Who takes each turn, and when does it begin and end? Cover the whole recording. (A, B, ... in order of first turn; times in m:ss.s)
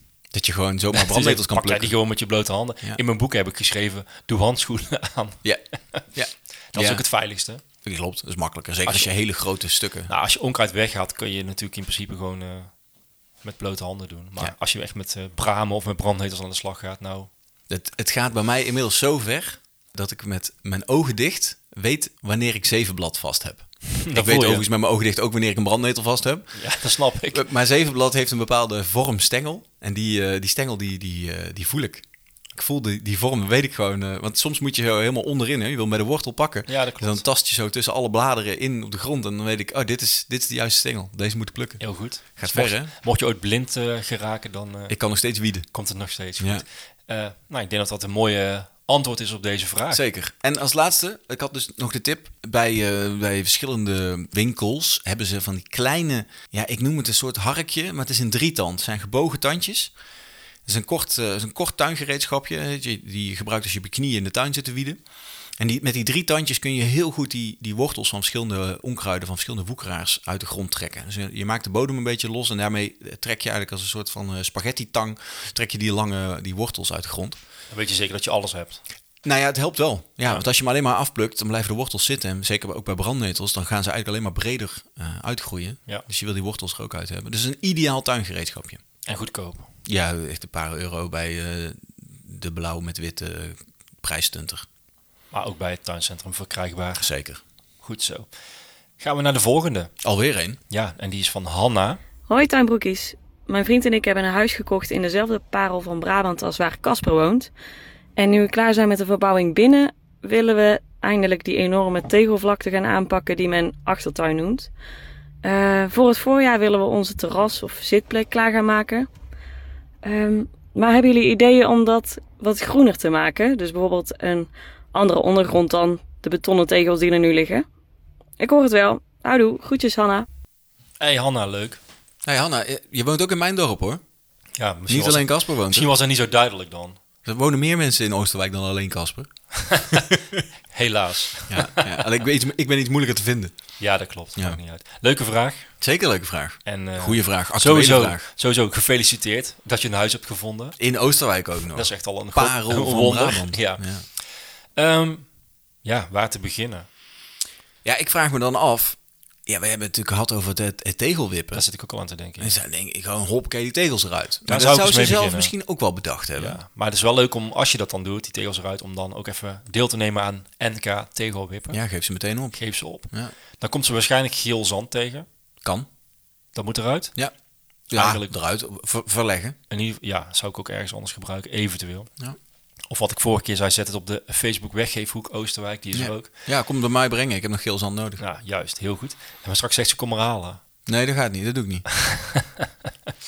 0:00.3-0:01.9 A
0:00.9-0:06.0 B
0:05.4-0:07.0 A
0:06.7-0:07.6 B
0:07.8-0:10.1 A
0:10.1-0:12.7 B
0:13.4-0:17.3 B
0:17.7-0:42.9 A
0:24.0-0:24.7 B
0:26.5-0:27.5 B
0:36.7-0:37.2 B
0:41.8-0:45.0 B
0:44.9-0:45.7 A
0:45.6-0:50.0 B
0:46.4-0:46.6 A
0:49.9-0:59.9 A
1:00.7-1:05.0 A
1:05.6-1:17.4 A
1:17.7-1:18.8 B
1:19.2-1:28.8 A
1:29.1-1:29.7 B
1:29.8-1:34.7 A
1:35.3-1:37.1 B
1:37.0-1:37.4 A
1:37.8-1:38.3 B
1:39.0-1:39.9 B
1:40.0-1:40.6 A
1:40.7-1:42.0 B
1:42.3-1:47.5 C
1:48.2-1:54.7 C
1:55.4-1:59.1 C
2:00.0-2:07.7 C
2:08.4-2:10.3 C
2:11.0-2:11.8 B
2:12.2-2:14.0 A
2:14.6-2:17.0 B
2:14.9-2:15.9 A
2:17.2-2:20.4 A
2:19.5-2:20.0 B
2:20.7-2:22.1 B
2:21.5-2:23.8 A
2:23.8-2:25.8 B
2:25.8-2:28.3 A
2:26.6-2:30.8 B
2:30.8-2:34.1 A
2:31.7-2:35.3 B
2:35.8-2:36.9 B
2:37.8-2:41.6 A
2:41.5-2:42.6 B
2:42.4-2:46.6 A
2:44.5-2:45.5 B
2:46.4-2:51.8 B
2:51.7-2:53.3 A
2:52.5-2:55.3 B
2:56.5-2:57.2 B
2:57.9-2:59.6 A
2:57.9-2:58.3 B
2:59.7-3:02.1 B
3:02.9-3:06.3 B
3:05.9-3:08.2 A
3:08.2-3:10.6 B
3:10.9-3:11.9 A
3:12.1-3:12.4 B